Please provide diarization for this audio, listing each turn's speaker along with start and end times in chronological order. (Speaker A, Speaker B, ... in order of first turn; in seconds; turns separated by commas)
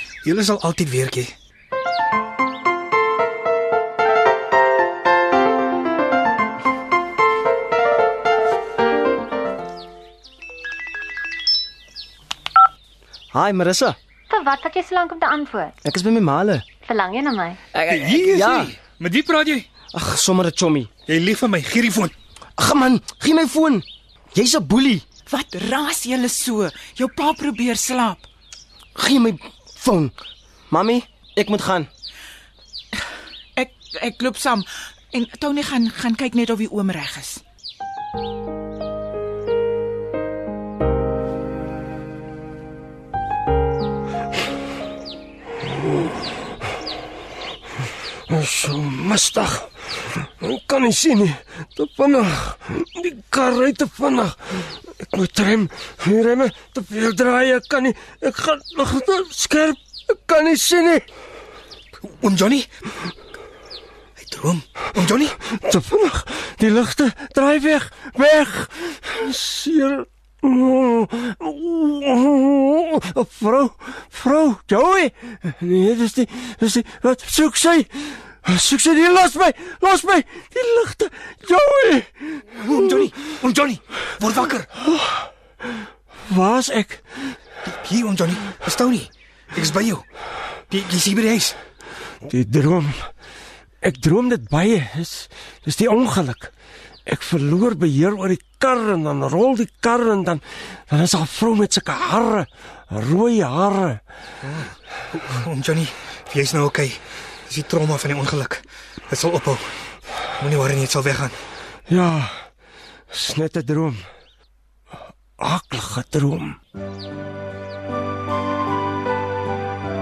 Speaker A: 0.2-1.3, Speaker B: 13.3-14.0, Speaker C: 14.3-15.8, Speaker B: 15.8-16.7, Speaker C: 16.8-17.6, Speaker B: 17.7-18.7, Speaker A: 17.9-19.6, Speaker B: 19.9-20.9, Speaker A: 21.1-22.1, Speaker B: 22.6-25.0, Speaker D: 25.3-28.3, Speaker B: 28.9-30.1, Speaker B: 30.7-31.9, Speaker D: 33.5-37.4, Speaker E: 48.3-49.7, Speaker E: 50.2-61.0, Speaker A: 62.0-62.7, Speaker A: 64.2-65.4, Speaker E: 65.4-82.5, Speaker A: 82.6-84.7, Speaker E: 84.9-85.2, Speaker E: 86.3-87.0, Speaker A: 87.6-90.0, Speaker A: 90.7-91.5, Speaker E: 92.2-93.1, Speaker E: 93.8-96.5, Speaker E: 97.0-104.0, Speaker A: 104.5-109.7, Speaker A: 110.4-111.4, Speaker E: 111.9-112.5, Speaker E: 113.1-114.0, Speaker E: 115.4-116.6